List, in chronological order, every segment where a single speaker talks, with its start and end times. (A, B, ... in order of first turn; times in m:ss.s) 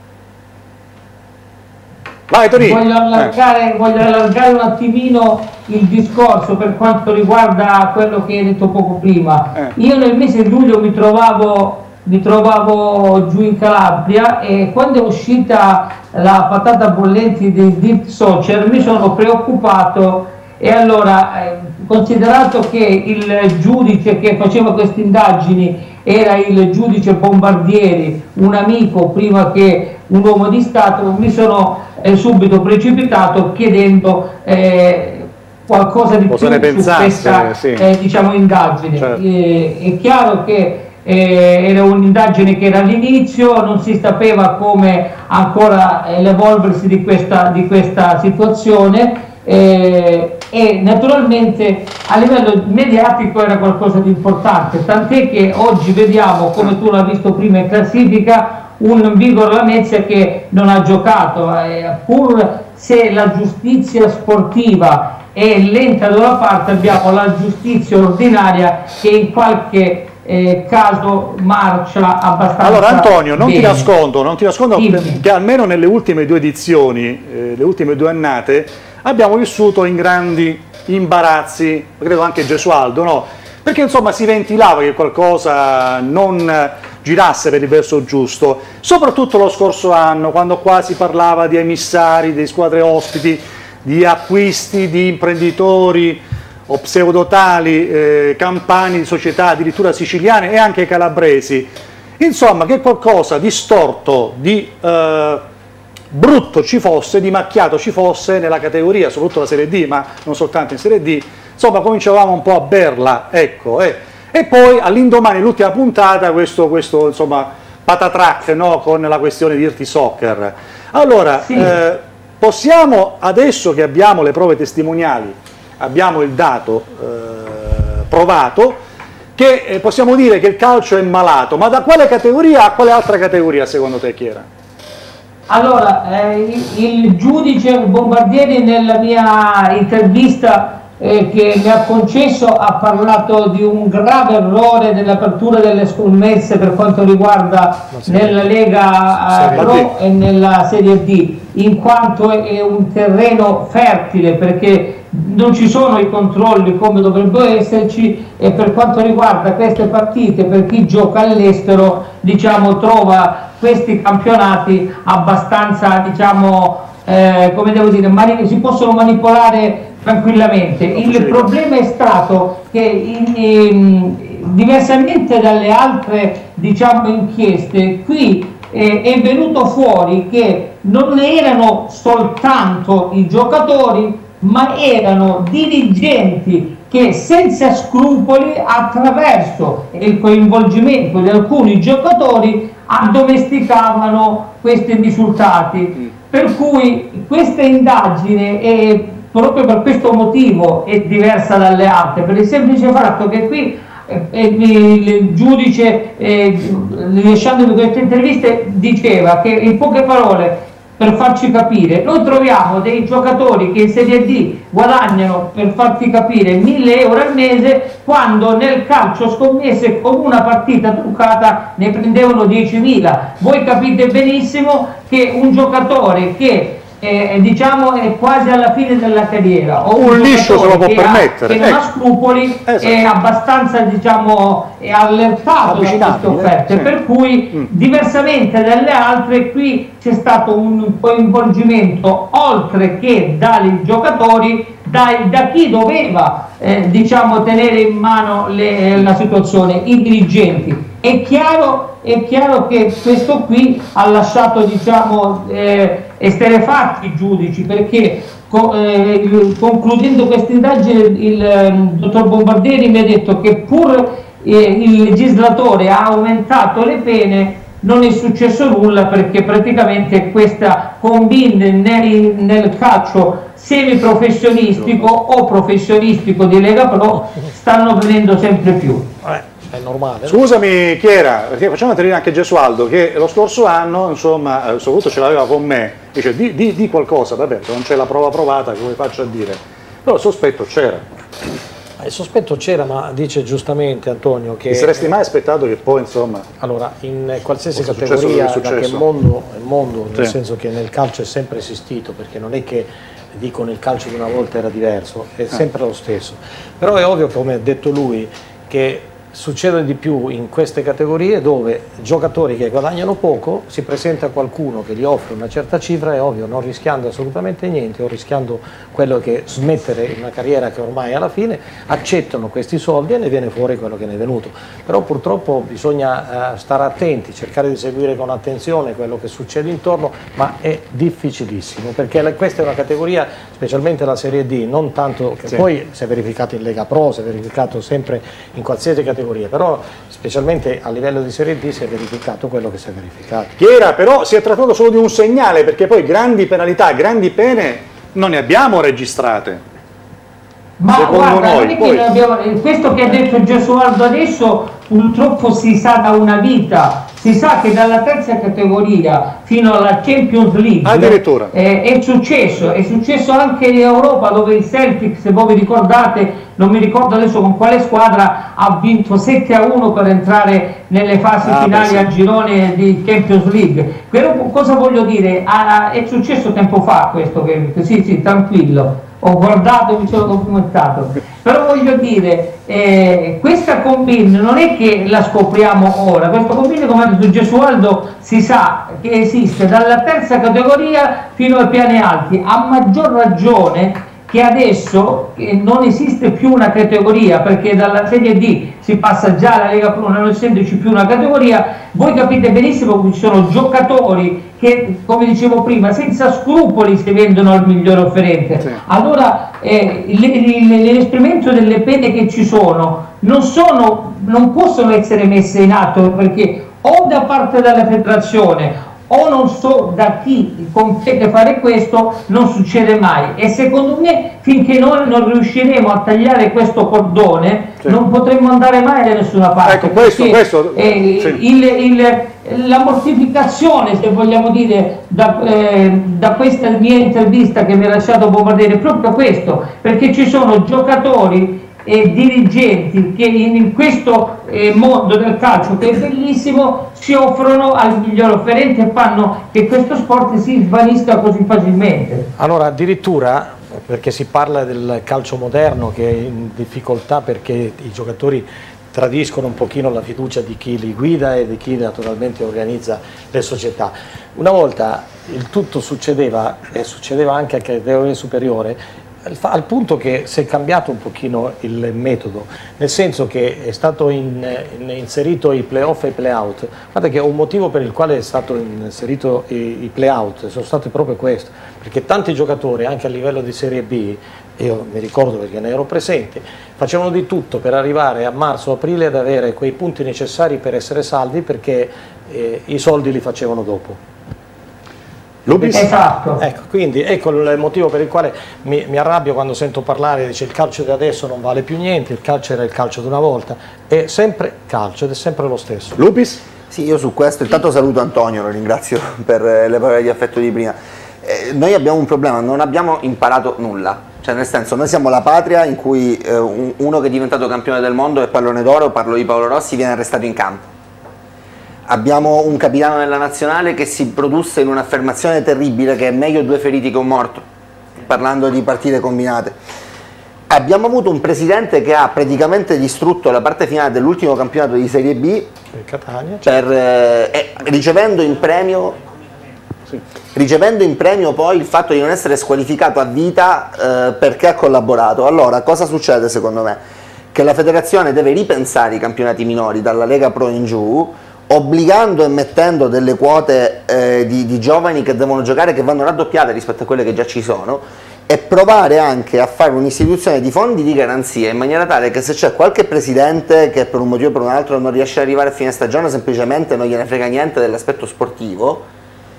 0:02.3-0:03.4 A
0:02.6-1:13.9 B
0:36.3-0:37.9 A
0:39.0-0:39.2 A
1:12.6-1:45.4 A
1:14.8-1:15.2 B
1:46.1-2:08.8 A
2:01.4-2:01.8 B
2:09.4-2:14.5 A
2:15.5-4:39.1 B
2:27.9-2:28.5 C
2:29.2-2:29.8 C
2:29.6-2:29.9 A
2:50.9-2:51.5 A
3:50.0-3:51.8 A
3:52.6-3:53.0 A
3:55.6-3:56.9 A
4:39.2-4:40.4 C
4:40.2-4:51.0 A
4:52.0-4:55.1 C
4:54.7-4:56.5 A
4:56.6-5:43.5 C
4:57.7-4:59.0 A
5:43.6-5:49.6 A
5:50.8-7:32.2 B
5:50.9-5:52.1 A
6:00.8-6:01.5 A
6:11.4-6:12.1 A
7:09.6-7:11.4 A
7:32.4-8:14.0 C
8:15.5-8:16.0 A
8:15.5-8:26.0 C
8:15.7-8:16.4 B
8:26.0-8:26.4 A
8:26.7-8:40.6 D
8:41.9-8:47.4 D
8:48.0-8:49.6 D
8:50.5-8:55.5 D
8:55.7-8:56.4 C
8:56.4-8:59.0 D
9:00.3-9:06.8 D
9:07.3-9:28.8 D